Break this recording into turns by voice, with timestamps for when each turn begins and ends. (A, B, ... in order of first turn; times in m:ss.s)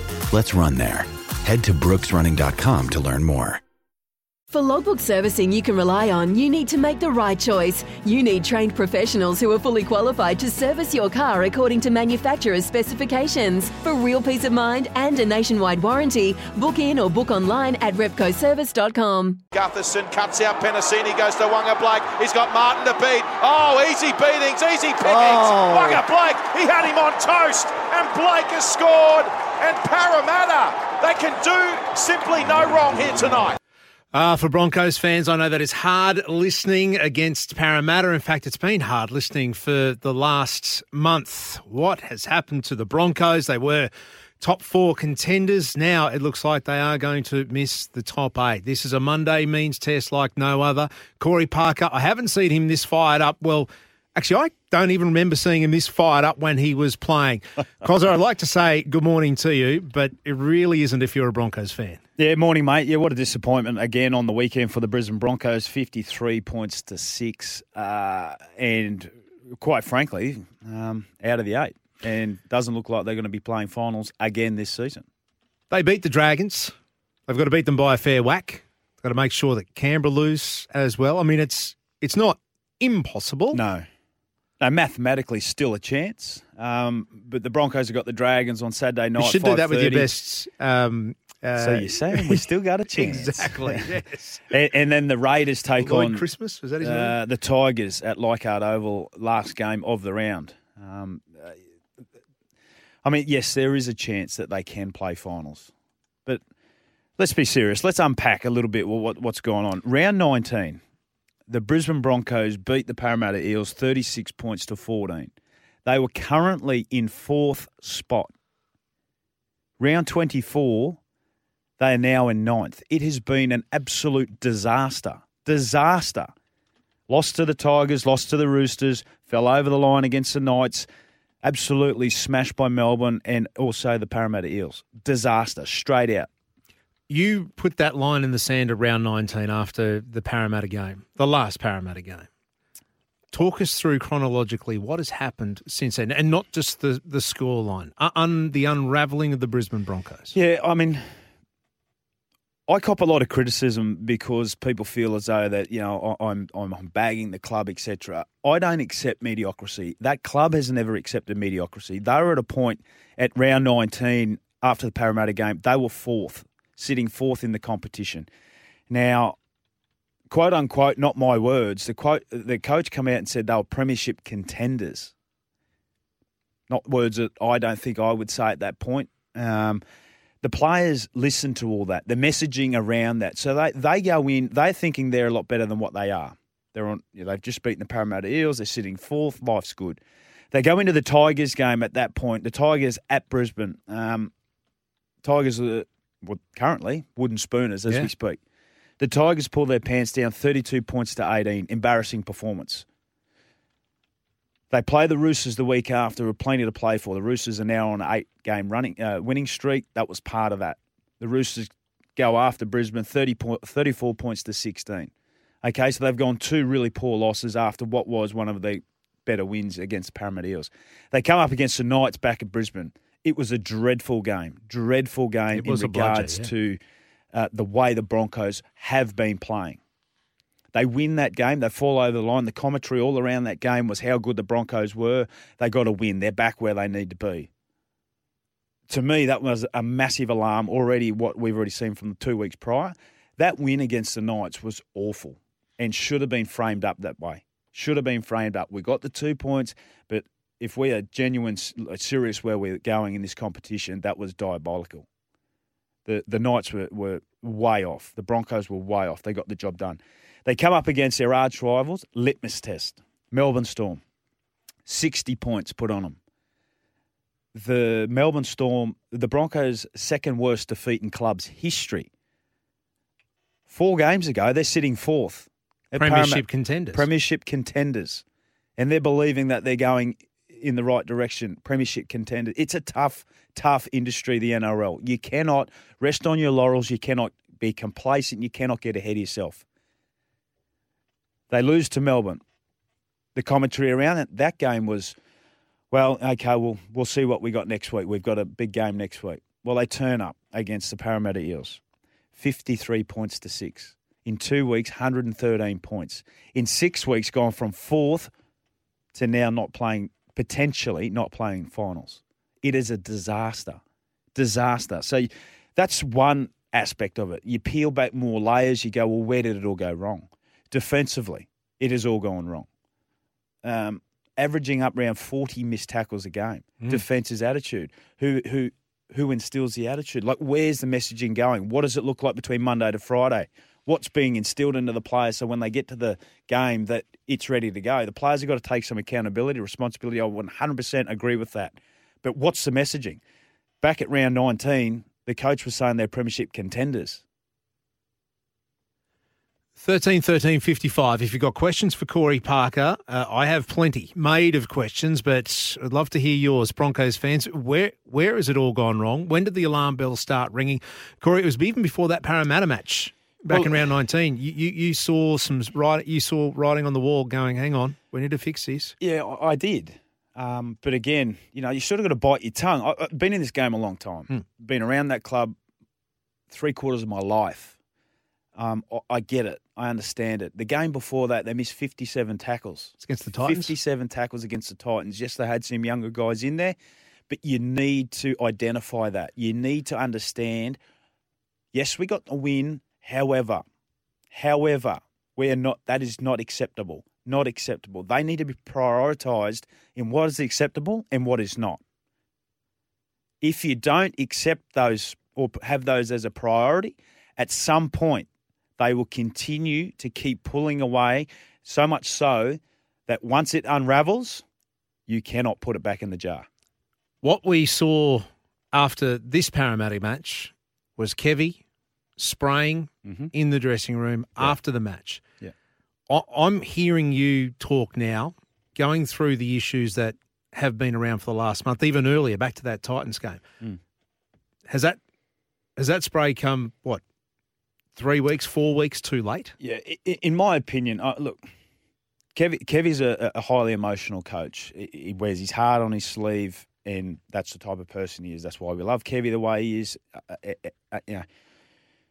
0:00.3-0:03.6 A
0:04.5-0:19.4 B
0:19.5-0:33.6 C
0:34.1-1:02.0 D
1:02.2-1:15.0 E
1:15.7-1:16.7 D
1:17.3-1:23.6 D
1:23.5-1:23.8 E
1:24.6-1:30.1 E
1:29.2-1:34.4 D
1:31.6-1:33.8 E
1:34.5-1:36.2 E
1:35.8-1:37.2 D
1:36.8-1:41.6 E
1:43.0-1:45.7 E
1:47.2-1:50.8 E
1:51.5-1:55.3 E
1:55.8-1:58.3 E
1:59.8-2:01.0 E
2:01.8-2:06.3 E
2:07.1-2:10.8 E
2:11.4-2:16.3 E
2:17.1-2:22.3 D
2:23.3-2:30.3 D
2:30.3-2:31.0 E
2:32.7-2:48.3 E
2:48.9-2:49.4 E
2:50.3-2:55.1 E
2:56.7-2:59.8 E
3:00.4-3:10.0 E
3:10.5-3:14.3 E
3:15.2-3:18.4 E
3:19.0-3:22.8 E
3:24.7-3:35.1 E
3:35.6-3:46.8 E
3:45.5-3:46.5 D
3:47.3-3:49.8 E
3:50.7-3:57.5 E
3:58.9-4:15.0 E
4:16.0-4:24.0 E
4:24.8-4:26.2 E
4:27.5-4:32.1 E
4:33.7-4:38.2 E
4:36.0-4:37.0 D
4:38.8-4:49.6 E
4:51.5-4:52.4 E
4:53.3-4:55.1 E
4:55.9-5:01.8 E
5:02.3-5:08.3 E
5:09.1-5:13.8 E
5:14.3-5:22.7 E
5:23.6-5:43.2 E
5:43.8-5:47.2 E
5:49.8-6:08.9 D
6:03.5-6:03.8 E
6:09.0-6:15.5 E
6:16.5-6:17.8 E
6:18.6-6:26.8 E
6:23.0-6:23.7 D
6:27.3-6:30.8 E
6:31.7-6:33.6 E
6:34.3-6:41.8 E
6:43.4-6:54.4 E
6:55.1-6:56.5 E
6:57.2-7:01.6 D
7:02.2-7:05.2 D
7:03.0-7:03.3 E
7:06.1-7:13.4 D
7:14.7-7:15.0 D
7:15.8-7:17.0 D
7:17.9-7:19.5 D
7:19.6-7:21.4 E
7:22.3-7:31.2 E